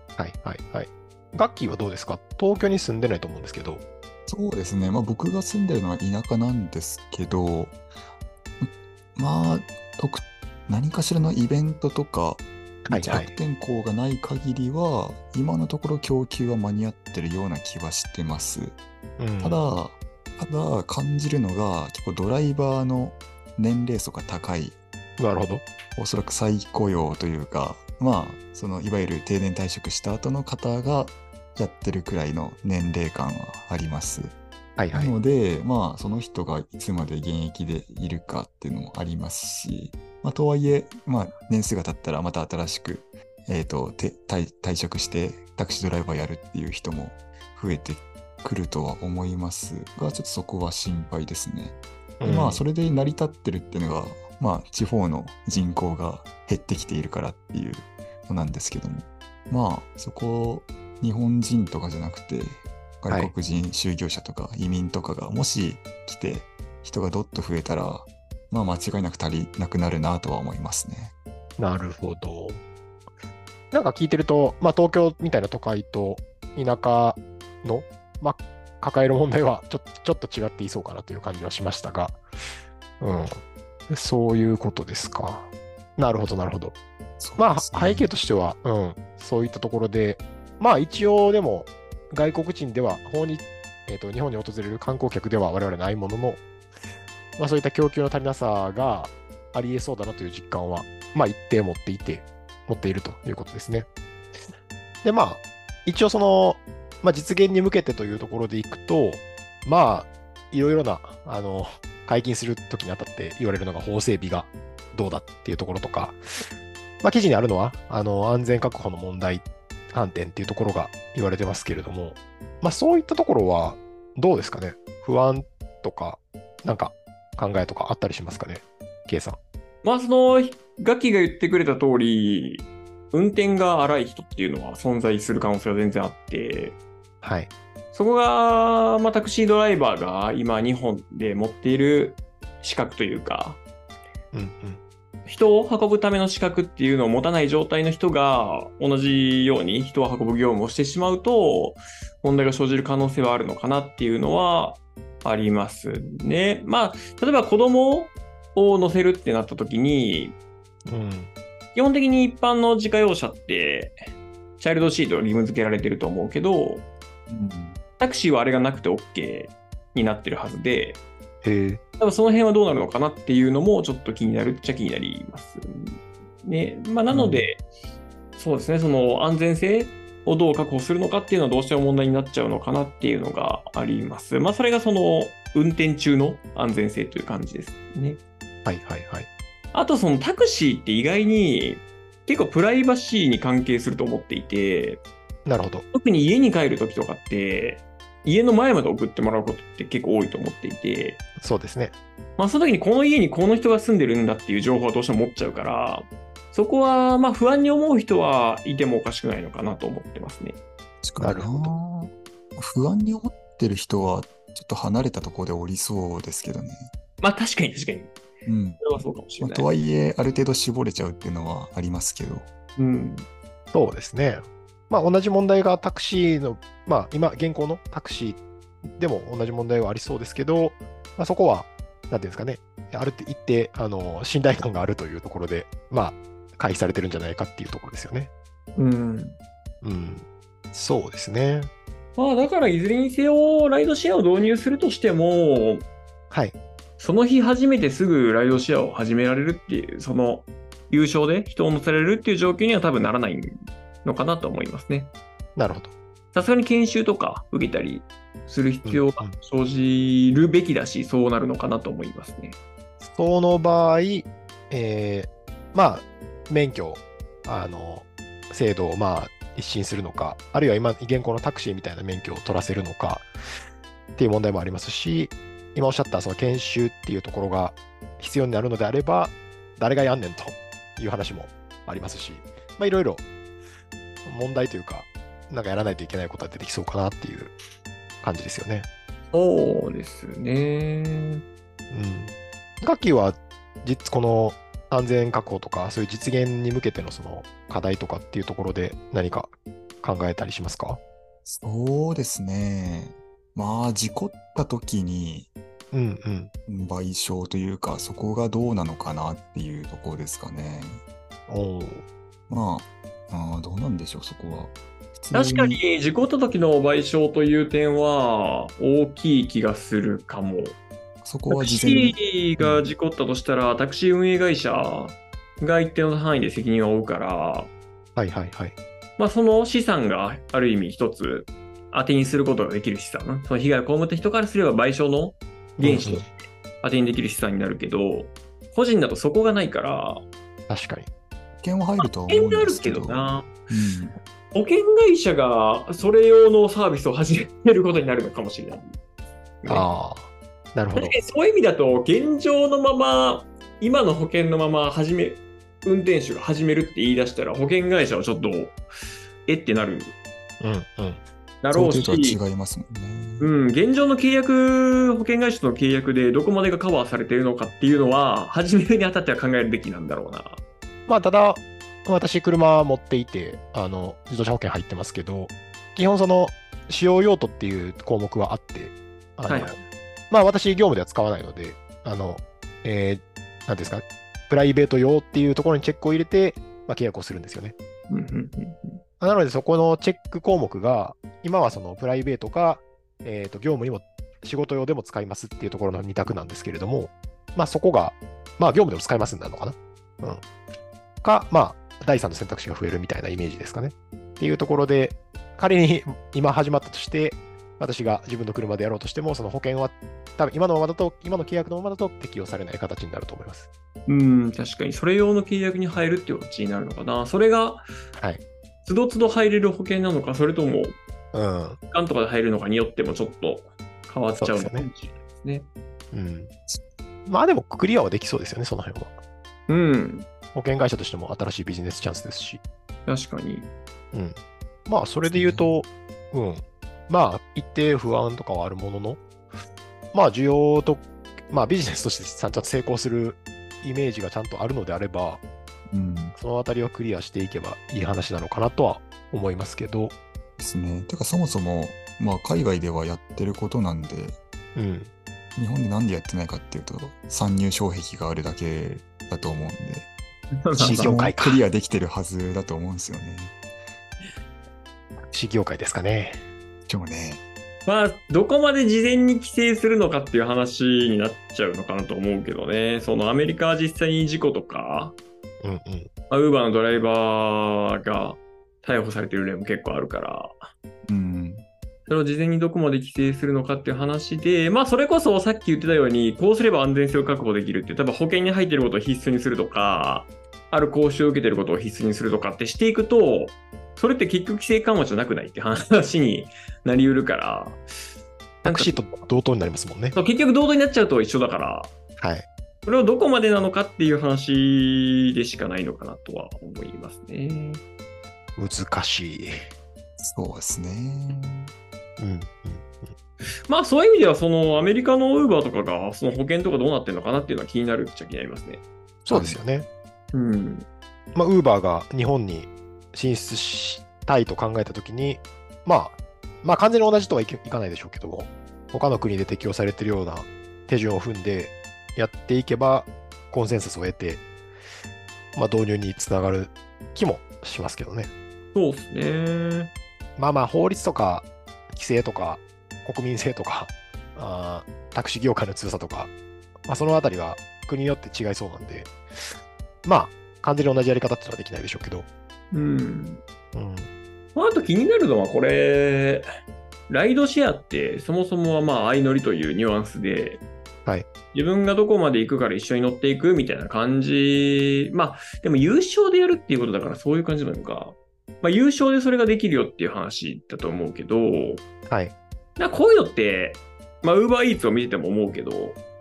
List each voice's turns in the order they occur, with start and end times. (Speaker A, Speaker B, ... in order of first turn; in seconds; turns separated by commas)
Speaker A: 0.2-3.8, Speaker B: 4.3-7.8, Speaker B: 8.6-18.8, Speaker A: 12.9-13.3, Speaker A: 19.2-19.6, Speaker B: 19.4-24.8, Speaker A: 25.2-25.6, Speaker B: 26.0-34.4, Speaker A: 34.8-35.1, Speaker B: 34.9-71.1, Speaker A: 52.2-52.6, Speaker A: 71.6-72.6, Speaker A: 73.7-82.2, Speaker A: 83.0-83.3, Speaker A: 83.9-86.8, Speaker B: 87.2-88.1, Speaker A: 87.4-96.4, Speaker A: 97.4-103.9, Speaker A: 105.0-116.2, Speaker A: 117.0-129.4, Speaker C: 129.8-136.8, Speaker A: 137.2-137.5, Speaker C: 137.9-143.6, Speaker A: 144.3-144.8, Speaker C: 145.3-160.4, Speaker A: 160.9-161.3, Speaker C: 161.8-164.0, Speaker C: 164.6-166.8, Speaker B: 167.3-167.8, Speaker C: 168.0-171.0, Speaker A: 171.4-171.8, Speaker C: 172.0-177.6, Speaker A: 177.1-177.5, Speaker C: 178.4-188.2, Speaker A: 188.7-189.3, Speaker C: 189.7-195.0, Speaker A: 195.5-195.8, Speaker C: 195.9-201.2, Speaker A: 201.4-202.0, Speaker C: 202.4-210.6, Speaker B: 211.0-216.9, Speaker A: 211.2-211.7, Speaker C: 217.2-218.1, Speaker B: 218.4-218.9, Speaker C: 218.8-219.7, Speaker B: 219.4-222.5, Speaker C: 222.8-223.3, Speaker A: 223.7-228.4, Speaker A: 229.0-238.3, Speaker C: 238.8-239.4, Speaker A: 239.8-241.7, Speaker C: 242.2-245.9, Speaker A: 246.3-246.6, Speaker C: 247.0-255.1, Speaker A: 255.6-255.9, Speaker C: 256.3-262.6, Speaker A: 258.9-259.4, Speaker A: 263.0-273.3, Speaker A: 274.2-283.2, Speaker A: 284.2-287.5, Speaker A: 288.2-288.9, Speaker C: 289.3-291.4, Speaker A: 291.9-301.0, Speaker B: 301.4-305.5, Speaker A: 305.9-306.5, Speaker B: 306.7-311.0, Speaker A: 311.5-312.1, Speaker B: 312.5-315.8, Speaker C: 315.3-320.8, Speaker B: 321.2-322.2, Speaker C: 321.5-327.7, Speaker A: 328.2-328.8, Speaker C: 329.2-340.2, Speaker A: 335.8-336.2, Speaker A: 340.7-341.1, Speaker B: 341.6-344.2, Speaker C: 342.3-343.5, Speaker C: 344.5-349.0, Speaker C: 349.6-349.9, Speaker A: 349.7-351.1, Speaker C: 350.9-358.8, Speaker C: 359.5-360.1, Speaker A: 360.6-361.2, Speaker C: 361.6-362.4, Speaker B: 361.7-363.5, Speaker C: 363.4-370.6, Speaker A: 371.1-379.8, Speaker C: 379.5-379.8, Speaker A: 380.3-387.8, Speaker C: 388.1-389.0, Speaker A: 389.2-400.4, Speaker A: 401.2-413.7, Speaker C: 414.1-417.9, Speaker A: 418.2-418.4, Speaker C: 418.9-421.0, Speaker A: 421.3-421.8, Speaker C: 421.9-425.7, Speaker A: 424.4-424.9, Speaker A: 426.1-426.5, Speaker A: 427.3-429.1, Speaker C: 429.7-430.3, Speaker A: 430.5-432.6, Speaker C: 433.1-433.7, Speaker A: 434.1-439.2, Speaker B: 435.2-435.8, Speaker A: 440.1-445.4, Speaker B: 445.9-446.4, Speaker A: 446.4-450.1, Speaker B: 450.6-454.4, Speaker A: 454.8-455.1, Speaker B: 455.6-460.1, Speaker C: 460.6-461.1, Speaker B: 460.8-463.6, Speaker A: 460.8-461.6, Speaker A: 465.3-466.4, Speaker B: 466.9-467.4, Speaker C: 467.9-475.2, Speaker A: 475.6-476.1, Speaker C: 476.3-480.7, Speaker B: 481.1-481.6, Speaker C: 482.1-497.8, Speaker C: 498.6-499.1, Speaker A: 498.6-500.2, Speaker C: 500.1-501.9, Speaker A: 502.2-502.5, Speaker C: 502.9-507.8, Speaker A: 508.6-509.5, Speaker B: 510.2-511.7, Speaker A: 512.2-513.1, Speaker C: 513.7-518.8, Speaker A: 519.2-519.9, Speaker B: 519.3-519.6, Speaker C: 520.3-520.9, Speaker A: 521.4-534.4, Speaker A: 535.5-538.3, Speaker C: 538.7-539.9, Speaker A: 540.4-546.3, Speaker A: 546.9-552.3, Speaker C: 552.7-553.4, Speaker A: 553.7-554.1, Speaker C: 554.5-556.5, Speaker C: 557.1-560.6, Speaker C: 561.5-571.8, Speaker A: 572.1-572.3, Speaker C: 572.8-576.0